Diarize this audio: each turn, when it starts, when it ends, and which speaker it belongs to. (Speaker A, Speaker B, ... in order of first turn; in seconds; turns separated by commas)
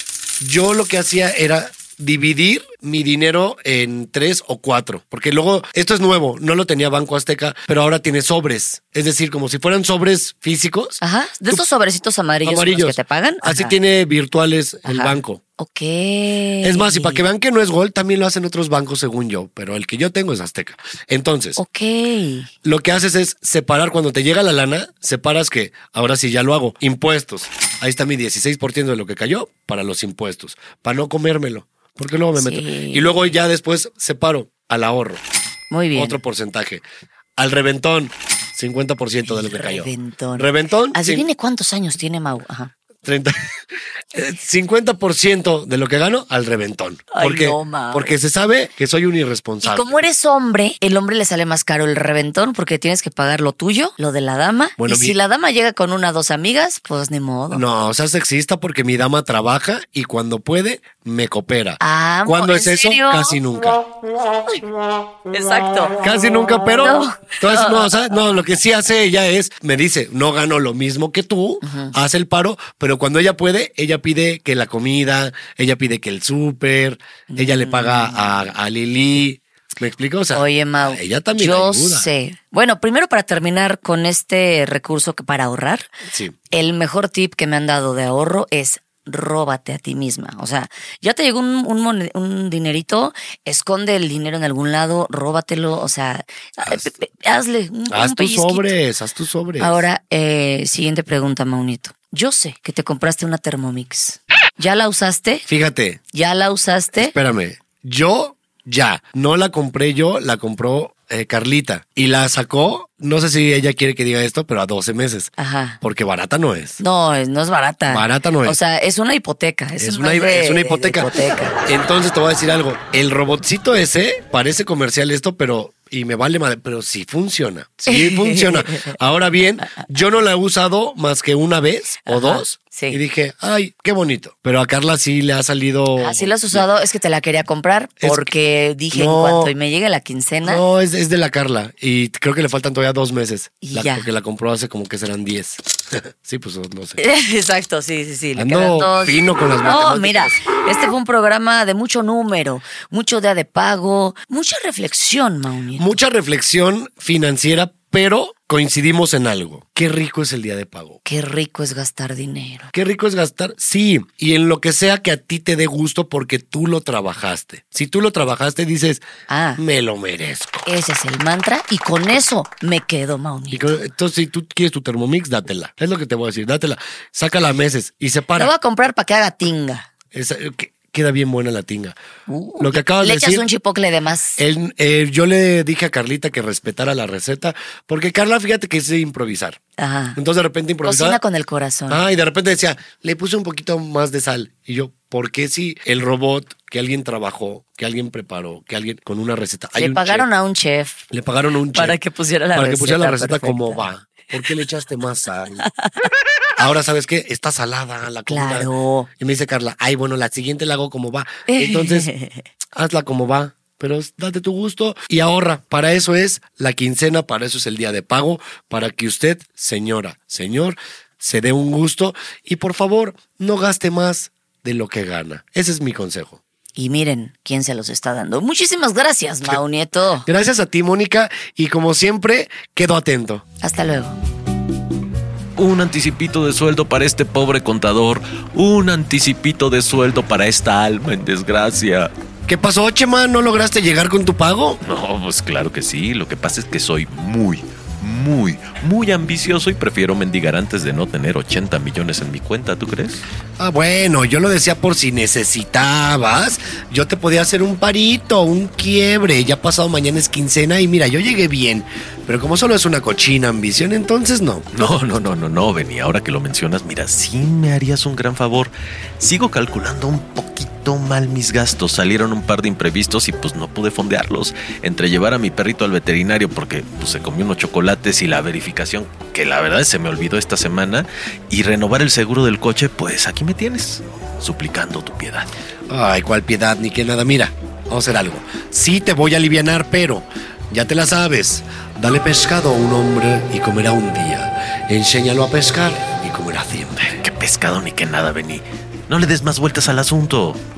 Speaker A: 0.4-11.6, Speaker B: 11.0-13.8, Speaker A: 12.4-15.4, Speaker B: 14.8-17.2, Speaker A: 16.6-21.6, Speaker B: 21.6-22.5, Speaker A: 22.6-35.2, Speaker B: 32.3-33.2, Speaker B: 35.7-36.2, Speaker A: 36.0-36.8, Speaker A: 37.4-41.2, Speaker B: 39.3-42.7, Speaker A: 43.0-43.5, Speaker A: 44.1-49.9, Speaker B: 47.1-48.1, Speaker B: 49.6-57.6, Speaker A: 54.8-55.1, Speaker A: 57.5-63.8, Speaker B: 61.8-63.4, Speaker B: 65.3-66.0, Speaker A: 66.0-82.1, Speaker B: 66.8-67.9, Speaker B: 71.6-71.9, Speaker B: 77.3-78.3, Speaker B: 80.3-85.9, Speaker A: 86.0-86.3, Speaker B: 86.5-98.7, Speaker A: 96.6-96.9, Speaker A: 97.9-99.8, Speaker B: 99.6-105.4, Speaker A: 105.5-106.0, Speaker B: 106.1-107.1, Speaker A: 106.9-116.8, Speaker B: 115.4-115.8, Speaker B: 116.8-121.5, Speaker A: 117.9-118.6, Speaker A: 119.8-136.7, Speaker B: 127.9-128.9, Speaker B: 132.1-133.0, Speaker B: 136.0-140.6, Speaker A: 138.0-138.3, Speaker A: 138.9-139.5, Speaker A: 140.4-147.0, Speaker B: 143.6-144.1, Speaker B: 147.0-156.0, Speaker A: 148.3-150.4, Speaker A: 155.8-161.0, Speaker B: 161.0-162.7, Speaker A: 162.7-169.0, Speaker B: 169.3-169.6, Speaker A: 169.6-170.7, Speaker B: 170.7-173.8, Speaker A: 173.5-178.5, Speaker B: 178.3-179.9, Speaker A: 180.1-181.9, Speaker B: 182.3-184.4, Speaker A: 182.6-183.4, Speaker A: 184.4-189.6, Speaker B: 189.8-190.2, Speaker A: 190.2-191.2, Speaker B: 190.8-192.0, Speaker A: 191.9-200.2, Speaker B: 199.7-201.0, Speaker A: 201.1-202.0, Speaker B: 201.7-203.8, Speaker A: 202.5-205.7, Speaker B: 205.6-206.1, Speaker A: 206.6-212.1, Speaker B: 208.3-209.1, Speaker B: 211.5-212.4, Speaker A: 212.7-226.4, Speaker B: 226.8-230.3, Speaker A: 230.2-233.4, Speaker B: 233.6-234.1, Speaker C: 235.6-242.1, Speaker A: 242.5-244.8, Speaker C: 244.8-253.2, Speaker A: 253.6-264.7, Speaker C: 264.7-285.5, Speaker A: 285.9-297.2, Speaker C: 297.1-300.6